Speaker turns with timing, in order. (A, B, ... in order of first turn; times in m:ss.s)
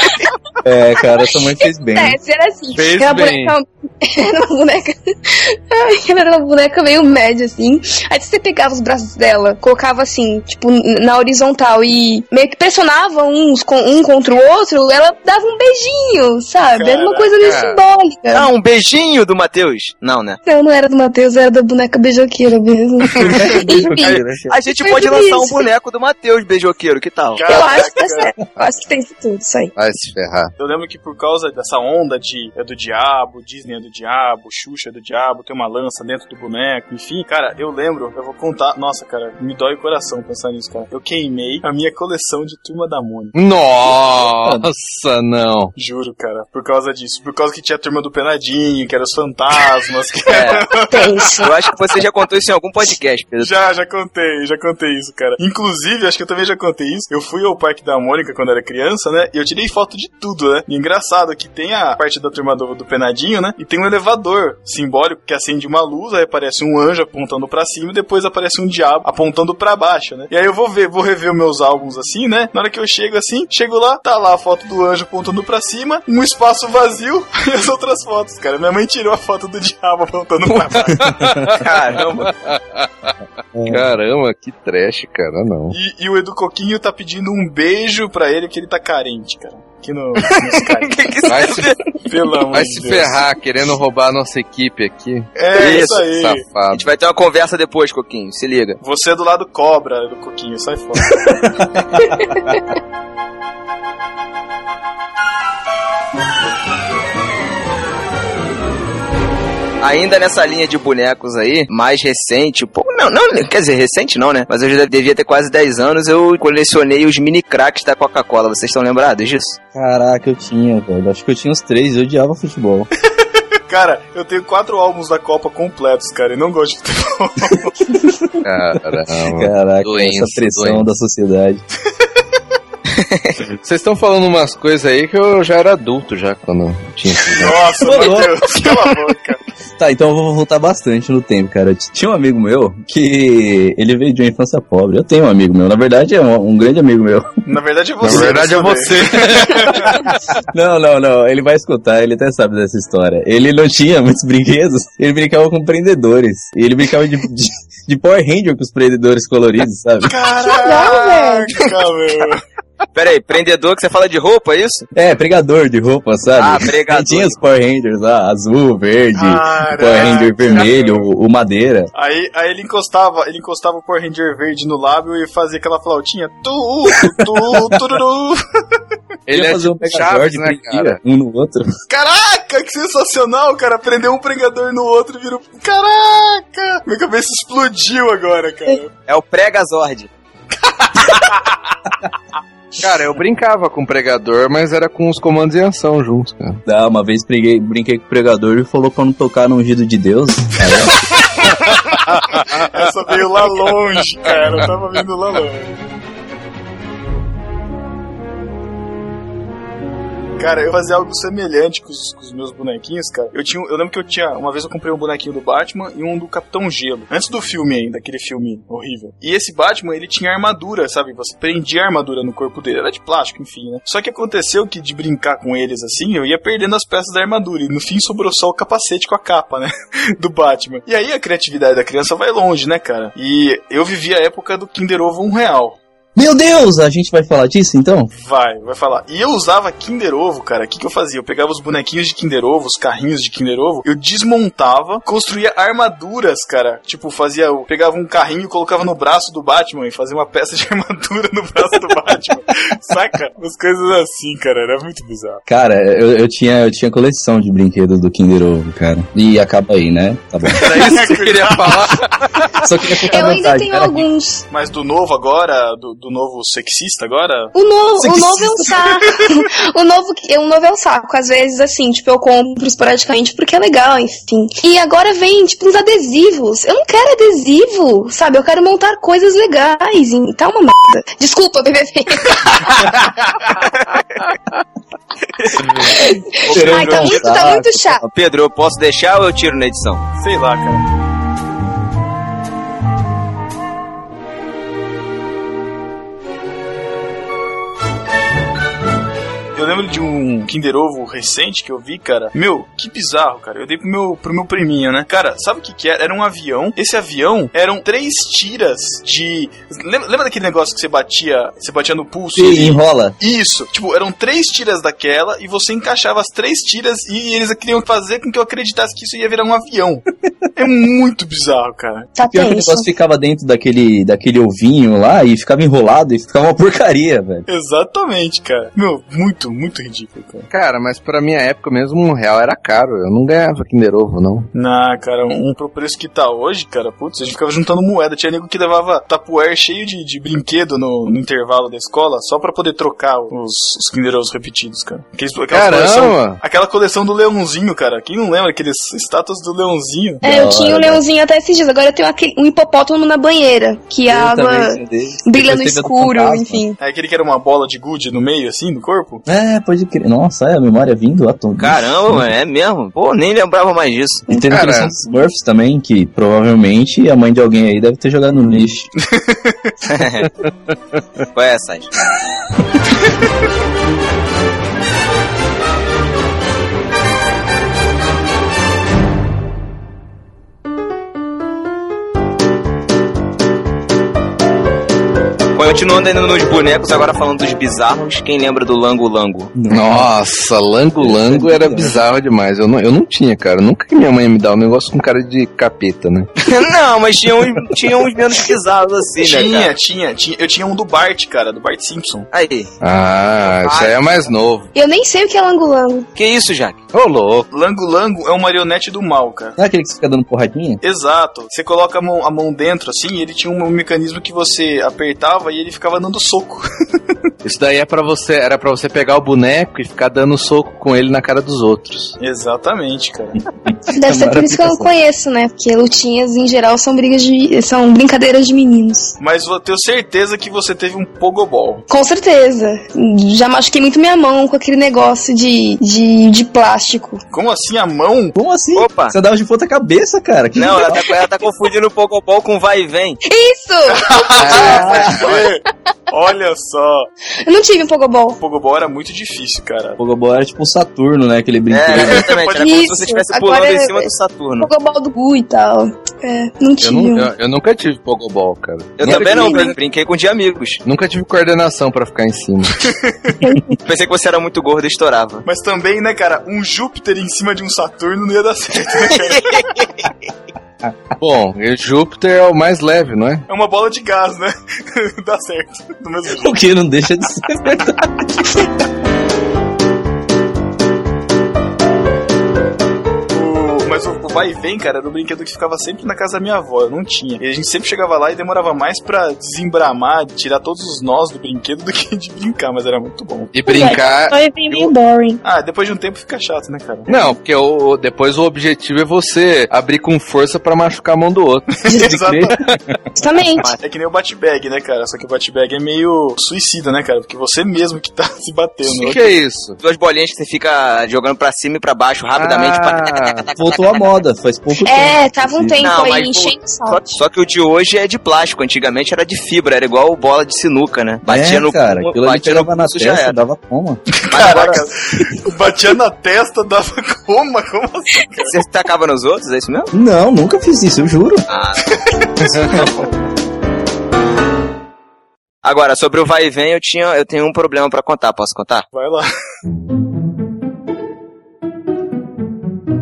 0:00.6-0:02.2 A
0:01.0-0:18.5 B
0:02.7-0:03.5 C
0:16.7-0:17.3 D
0:17.4-0:17.8 C
0:18.3-0:20.4 E
0:20.4-0:25.7 B
0:23.2-0:24.6 A
0:24.1-0:27.4 E
0:27.3-0:28.3 D
0:27.4-0:29.7 B
0:29.8-0:30.5 C
0:30.6-0:43.3 D
0:43.3-0:45.7 C
0:45.8-0:51.5 D
0:50.3-0:50.6 E
0:50.9-0:51.6 B
0:51.4-0:53.5 E
0:53.4-1:21.2 D
1:21.1-1:22.8 C
1:21.6-1:22.3 E
1:23.6-1:23.8 A
1:23.6-1:25.7 C
1:25.7-1:31.0 D
1:30.3-1:31.8 E
1:31.3-1:31.7 C
1:32.0-1:33.2 D
1:32.5-1:35.3 C
1:35.4-1:36.4 D
1:35.5-1:36.1 E
1:36.1-1:36.8 C
1:36.7-1:38.8 E
1:38.8-1:41.4 D
1:49.8-1:59.6 E
1:59.7-2:02.9 A
2:03.7-2:07.9 D
2:08.4-2:10.8 C
2:09.3-2:11.6 A
2:13.5-2:17.6 C
2:17.3-2:19.4 D
2:17.8-2:18.3 A
2:19.8-2:27.3 A
2:27.4-2:29.9 D
2:28.0-2:30.0 C
2:30.5-2:40.1 A
2:40.0-2:42.4 D
2:40.4-2:41.6 B
2:42.9-2:44.8 E
2:44.9-2:51.9 A
2:46.4-2:47.4 E
2:49.1-2:51.1 D
2:51.9-2:58.4 D
2:59.3-3:01.0 C
2:59.3-3:01.7 A
3:01.9-3:08.9 D
3:09.1-3:10.1 E
3:10.6-3:11.5 D
3:12.8-3:16.6 C
3:16.6-3:21.0 A
3:20.9-3:21.8 D
3:22.5-3:25.8 D
3:30.4-3:55.8 D
3:56.1-3:58.1 A
3:58.1-4:15.4 D
4:15.5-4:20.7 A
4:20.5-4:22.6 C
4:20.6-4:22.0 D
4:22.6-4:24.1 A
4:23.1-4:24.4 B
4:24.5-4:27.5 D
4:27.5-4:42.7 B
4:28.0-4:28.6 A
4:45.4-4:45.7 E
4:45.8-4:48.0 B
4:46.5-4:48.0 A
4:46.5-4:47.3 E
4:48.0-4:50.0 E
4:50.2-4:50.8 D
4:59.5-5:20.0 D
5:12.4-5:13.2 A
5:20.6-5:22.1 D
5:22.1-5:22.9 B
5:22.3-5:27.4 A
5:27.5-5:30.5 D
5:30.5-5:34.5 C
5:34.5-5:50.2 D
5:45.5-5:46.4 C
5:50.2-5:51.0 A
5:50.2-5:56.8 B
5:54.1-5:56.6 A
5:56.8-5:59.2 D
5:59.2-6:02.2 A
6:01.6-6:04.2 E
6:04.3-6:04.6 B
6:04.3-6:08.9 A
6:04.5-6:04.9 C
6:09.0-6:09.7 D
6:09.9-6:10.3 E
6:11.3-6:11.9 E
6:25.5-6:29.5 E
6:29.5-6:30.1 A
6:29.7-6:36.3 C
6:31.0-6:32.0 A
6:36.4-6:39.7 E
6:39.2-6:42.3 D
6:42.3-6:42.7 E
6:42.8-6:44.7 C
6:43.4-6:44.3 E
6:44.7-6:46.1 B
6:46.1-6:46.8 E
6:46.9-6:47.4 C
6:47.5-6:49.6 D
6:49.6-6:50.8 A
6:50.8-6:56.6 D
6:57.4-7:02.2 C
7:02.2-7:03.4 D
7:03.6-7:04.9 A
7:03.9-7:09.1 B
7:09.2-7:11.8 D
7:11.9-7:17.2 B
7:17.3-7:18.3 D
7:18.3-7:21.0 A
7:18.7-7:19.1 E
7:20.6-7:23.2 E
7:20.7-7:21.1 B
7:23.2-7:25.0 B
7:23.9-7:27.1 D
7:24.4-7:25.3 C
7:24.6-7:25.2 A
7:27.4-7:28.4 B
7:28.4-7:30.0 D
7:30.0-7:32.3 A
7:31.7-7:34.7 E
7:31.9-7:32.7 D
7:32.5-7:37.3 B
7:36.8-7:39.7 C
7:39.0-7:40.8 E
7:39.1-7:39.8 B
7:40.8-7:42.8 C
7:43.4-7:43.8 B
7:43.8-7:45.4 E
7:45.4-7:49.7 D
7:49.3-7:49.8 E
7:51.2-7:53.4 C
7:53.5-7:56.6 D
7:56.4-7:58.5 A
8:03.3-8:13.5 D
8:13.5-8:14.9 C
8:13.6-8:15.4 B
8:15.4-8:17.2 D
8:17.1-8:21.7 C
8:21.8-8:22.6 D
8:21.9-8:22.2 B
8:22.0-8:22.6 A
8:23.2-8:23.7 B
8:23.7-8:29.3 D
8:28.8-8:29.8 C
8:29.8-8:34.2 E
8:32.4-8:33.4 C
8:33.6-8:35.8 A
8:34.8-8:37.2 B
8:35.8-8:43.4 E
8:41.2-8:44.0 A
8:44.3-8:48.6 D
8:44.3-8:44.8 E
8:48.4-8:49.9 E
8:49.9-8:51.4 A
8:51.5-8:51.8 E
8:51.8-8:53.0 D
8:52.5-8:52.8 C
8:55.6-8:58.8 E
8:58.9-8:59.3 D